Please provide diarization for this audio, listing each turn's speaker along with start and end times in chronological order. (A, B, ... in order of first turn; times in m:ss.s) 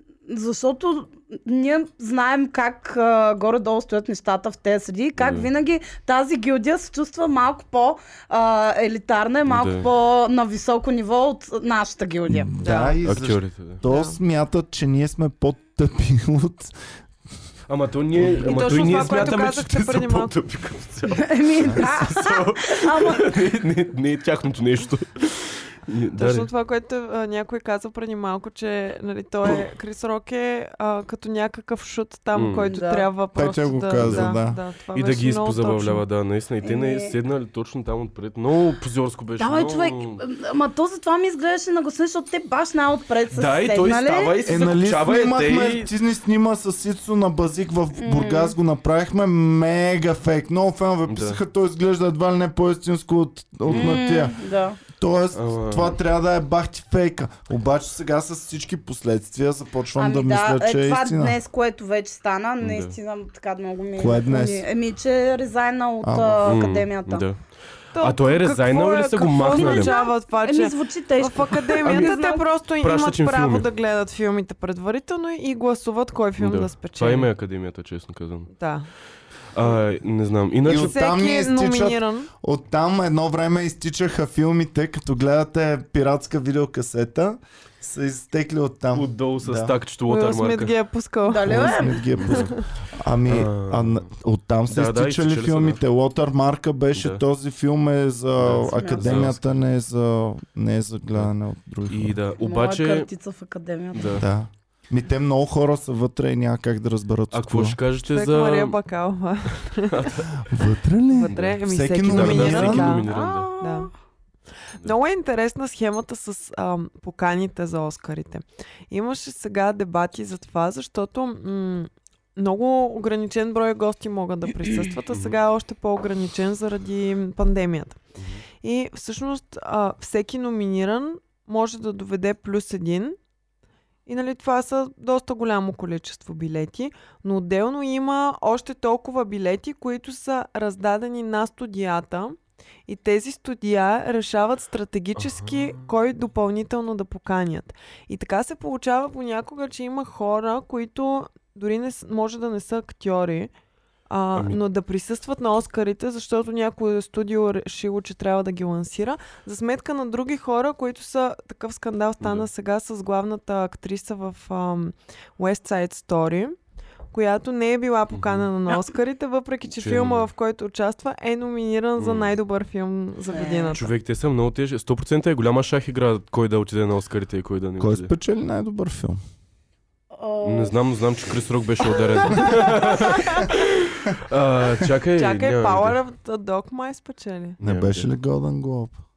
0:00.3-0:12.9 A
0:05.2-0:05.5 B
0:09.4-0:09.9 B
0:12.3-0:16.7 C
0:12.6-0:12.9 D
0:13.0-0:13.8 B
0:13.9-0:14.2 D
0:17.7-0:26.5 B
0:18.2-0:20.3 D
0:21.1-0:23.4 A
0:26.2-0:36.0 D
0:32.3-0:32.7 B
0:32.6-0:33.1 A
0:33.3-0:34.6 C
0:34.0-0:34.3 B
0:34.9-0:40.2 B
0:36.6-0:37.2 A
0:39.4-0:44.3 A
0:43.3-0:45.9 B
0:44.4-0:54.4 C
0:48.0-0:48.5 A
0:51.1-0:51.4 B
0:53.6-0:54.0 B
0:53.7-0:54.8 A
0:54.9-1:01.4 C
0:55.3-0:56.0 B
1:00.0-1:07.2 A
1:02.6-1:03.0 B
1:04.0-1:04.6 C
1:06.0-1:06.5 C
1:06.4-1:07.4 B
1:07.9-1:17.3 D
1:08.0-1:09.9 B
1:09.5-1:12.4 A
1:11.8-1:13.7 B
1:16.4-1:18.5 B
1:18.5-1:18.9 D
1:19.5-1:20.9 B
1:20.6-1:29.7 C
1:20.7-1:22.3 D
1:28.9-1:30.7 B
1:30.1-1:31.7 D
1:31.2-1:32.1 A
1:31.4-1:42.2 C
1:32.2-1:32.5 B
1:32.3-1:32.6 D
1:33.3-1:34.1 B
1:34.7-1:35.8 B
1:36.9-1:37.2 B
1:38.4-1:39.4 B
1:38.7-1:39.3 A
1:41.9-1:43.1 B
1:42.4-1:44.2 A
1:43.9-1:44.2 B
1:44.2-1:47.8 C
1:47.3-1:48.8 B
1:48.1-1:50.2 D
1:49.9-1:50.2 B
1:50.4-1:53.0 C
1:51.1-1:53.9 D
1:51.3-1:53.5 B
1:53.0-1:53.9 A
1:54.7-2:08.0 D
2:05.1-2:05.3 B
2:08.2-2:08.4 B
2:08.6-2:13.2 D
2:14.0-2:33.5 D
2:25.2-2:25.8 B
2:34.1-2:46.6 D
2:42.2-2:42.5 B
2:47.1-2:53.9 D
2:48.1-2:48.5 B
2:49.8-2:50.3 B
2:52.0-2:52.4 B
2:53.3-2:53.8 A
2:53.7-2:58.1 B
2:57.8-2:59.2 C
3:00.1-3:00.8 A
3:00.4-3:06.0 B
3:02.3-3:03.7 D
3:02.3-3:03.5 A
3:05.1-3:07.6 D
3:07.6-3:08.1 B
3:07.6-3:09.0 C